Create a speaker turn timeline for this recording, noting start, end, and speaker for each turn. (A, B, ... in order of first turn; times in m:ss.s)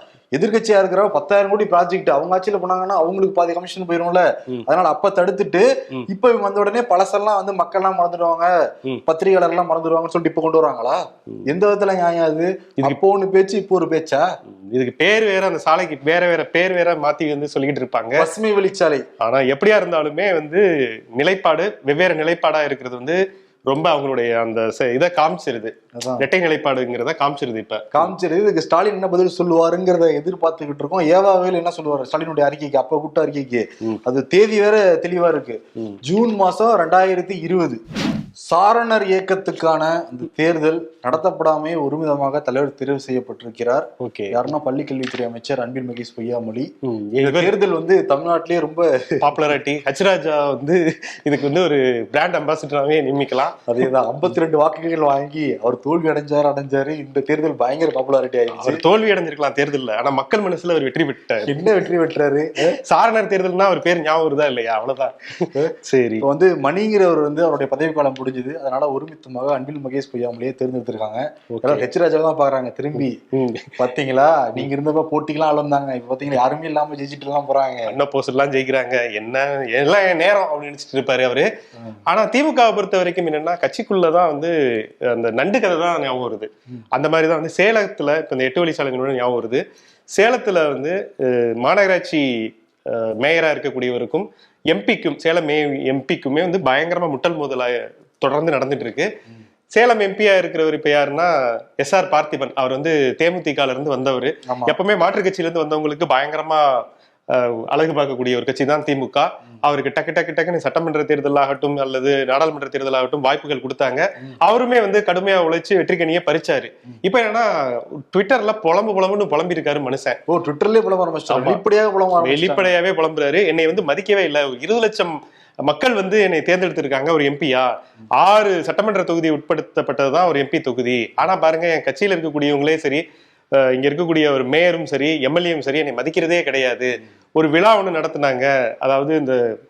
0:00.4-0:14.3 A
0:14.7-0:18.3 B
0:18.2-0:19.1 A
0:19.2-0:20.6 B
0:21.2-0:28.1 B
0:26.0-0:26.3 A
0:27.9-0:37.8 A
0:38.4-0:49.4 A
0:44.0-0:44.4 B
0:46.8-0:47.6 B
0:49.2-0:53.8 B
0:53.7-0:58.8 A
0:58.6-1:01.7 B
1:01.4-1:02.8 A
1:02.7-1:06.3 B
1:05.6-1:13.2 A
1:11.5-1:11.8 B
1:13.3-1:13.8 B
1:13.8-1:17.9 A
1:17.9-1:21.5 B
1:22.1-1:29.6 B
1:30.1-1:39.1 B
1:39.7-2:00.2 B
1:44.4-1:44.8 A
2:00.3-2:02.7 A
2:01.3-2:01.6 B
2:02.2-2:13.0 B
2:13.6-2:19.4 B